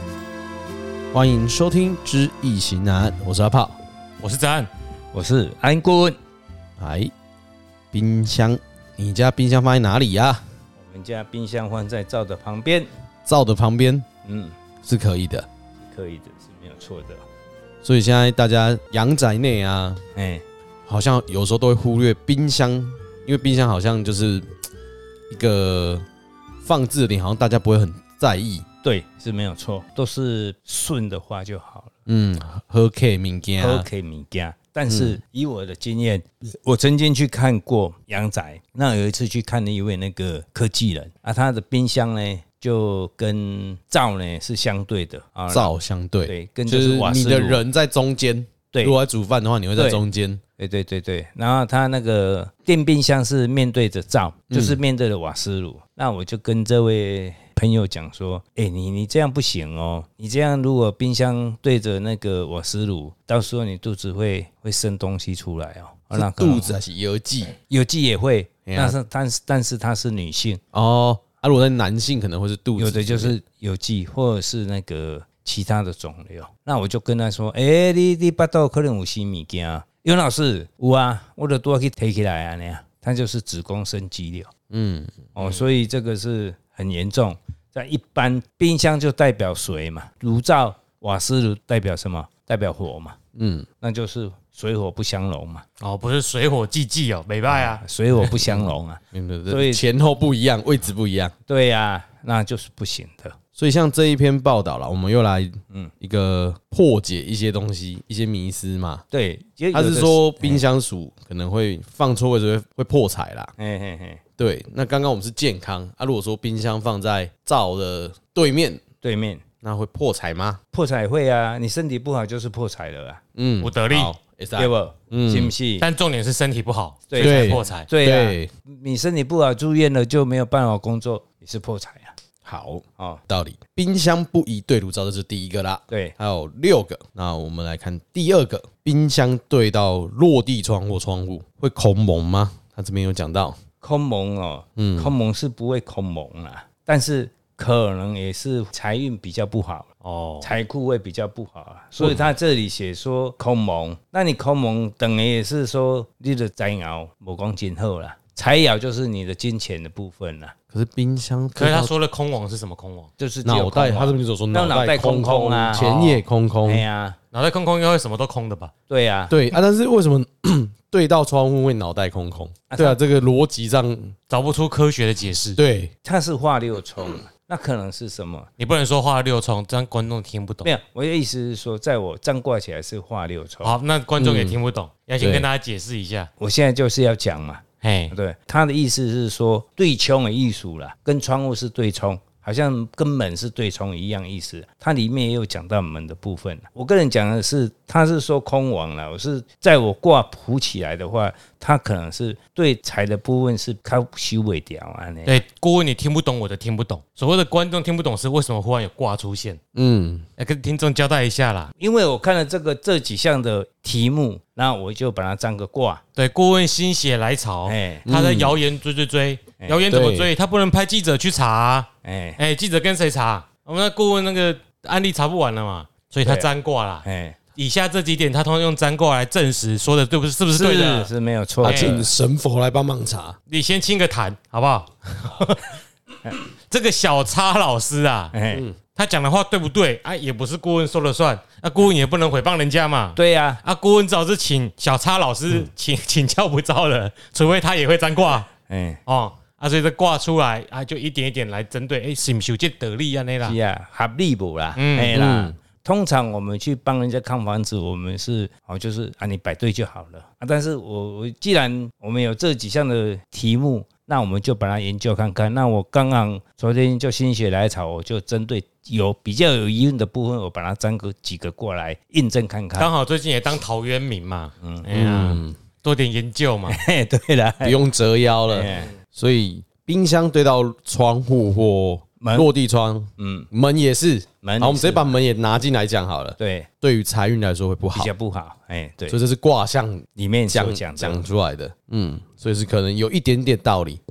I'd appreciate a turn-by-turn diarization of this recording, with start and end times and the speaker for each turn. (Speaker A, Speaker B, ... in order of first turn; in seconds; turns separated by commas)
Speaker A: 1.1-3.8, Speaker B: 4.2-4.7, Speaker C: 5.1-6.2, Speaker A: 6.8-7.1, Speaker A: 7.9-10.4, Speaker C: 10.8-12.9, Speaker A: 13.2-14.1, Speaker C: 14.2-14.6, Speaker A: 14.8-15.5, Speaker C: 15.8-17.2, Speaker A: 17.8-20.0, Speaker C: 20.1-20.4, Speaker A: 20.9-24.5, Speaker A: 25.3-26.0, Speaker A: 26.6-28.6, Speaker C: 28.8-31.9, Speaker A: 32.1-33.9, Speaker C: 33.6-45.7, Speaker A: 34.9-35.2, Speaker A: 45.5-50.4, Speaker C: 46.2-47.6, Speaker C: 48.7-49.0, Speaker C: 49.8-50.0, Speaker C: 50.6-66.7, Speaker A: 54.5-54.8, Speaker A: 66.1-67.5, Speaker C: 67.7-70.6, Speaker A: 68.7-68.9, Speaker A: 70.7-73.4, Speaker C: 72.8-84.5, Speaker A: 84.7-85.3, Speaker C: 85.3-93.2, Speaker A: 93.3-93.7, Speaker C: 93.8-95.6, Speaker B: 95.8-97.8, Speaker C: 97.8-99.8, Speaker A: 98.2-101.3, Speaker C: 101.5-103.4, Speaker A: 103.5-109.0, Speaker C: 109.1-110.6, Speaker A: 109.7-113.5, Speaker C: 113.6-114.2, Speaker A: 114.4-118.8, Speaker C: 119.0-119.4, Speaker A: 119.6-120.6, Speaker C: 120.7-123.2, Speaker A: 123.3-125.5, Speaker B: 123.6-124.1, Speaker C: 124.5-125.9, Speaker B: 125.8-127.9, Speaker C: 127.1-132.1, Speaker A: 127.2-128.5, Speaker A: 132.4-143.6, Speaker C: 143.8-149.9, Speaker A: 144.8-145.1, Speaker B: 150.0-150.5, Speaker C: 150.4-160.5, Speaker A: 160.7-161.9, Speaker B: 161.6-163.1, Speaker C: 163.2-165.8, Speaker A: 163.4-166.8, Speaker B: 165.7-166.2, Speaker C: 166.7-167.2, Speaker B: 167.3-168.7, Speaker C: 168.9-169.3, Speaker A: 169.3-174.2, Speaker C: 172.7-173.0, Speaker B: 174.3-175.6, Speaker A: 175.6-175.9, Speaker C: 176.0-178.5, Speaker B: 178.6-180.7, Speaker C: 180.6-183.7, Speaker B: 183.6-186.3, Speaker A: 184.2-184.6, Speaker A: 185.2-185.5, Speaker C: 186.4-205.4, Speaker B: 187.8-188.1, Speaker B: 205.2-209.6, Speaker A: 209.7-210.3, Speaker B: 210.4-211.7, Speaker C: 211.8-216.0, Speaker B: 216.2-231.1, Speaker C: 217.7-218.1, Speaker A: 218.1-218.6, Speaker A: 219.9-220.3, Speaker C: 222.0-222.4, Speaker C: 226.2-226.5, Speaker C: 227.0-227.4, Speaker C: 230.6-232.1, Speaker A: 231.6-233.4, Speaker B: 231.6-232.0, Speaker B: 233.5-235.8, Speaker B: 236.7-238.3, Speaker C: 238.3-238.6, Speaker B: 238.9-248.5, Speaker C: 243.1-243.6, Speaker C: 248.7-249.0, Speaker B: 249.1-253.6, Speaker C: 253.4-272.9, Speaker B: 254.8-255.2, Speaker A: 255.1-255.6, Speaker B: 272.8-276.8, Speaker C: 274.6-274.9, Speaker A: 274.9-275.6, Speaker C: 276.7-277.8, Speaker A: 277.6-288.1, Speaker C: 278.5-278.9, Speaker C: 282.2-282.5, Speaker C: 283.2-283.5, Speaker C: 284.4-285.2, Speaker C: 286.4-286.7, Speaker C: 287.9-289.2, Speaker A: 289.1-294.0, Speaker C: 290.1-291.2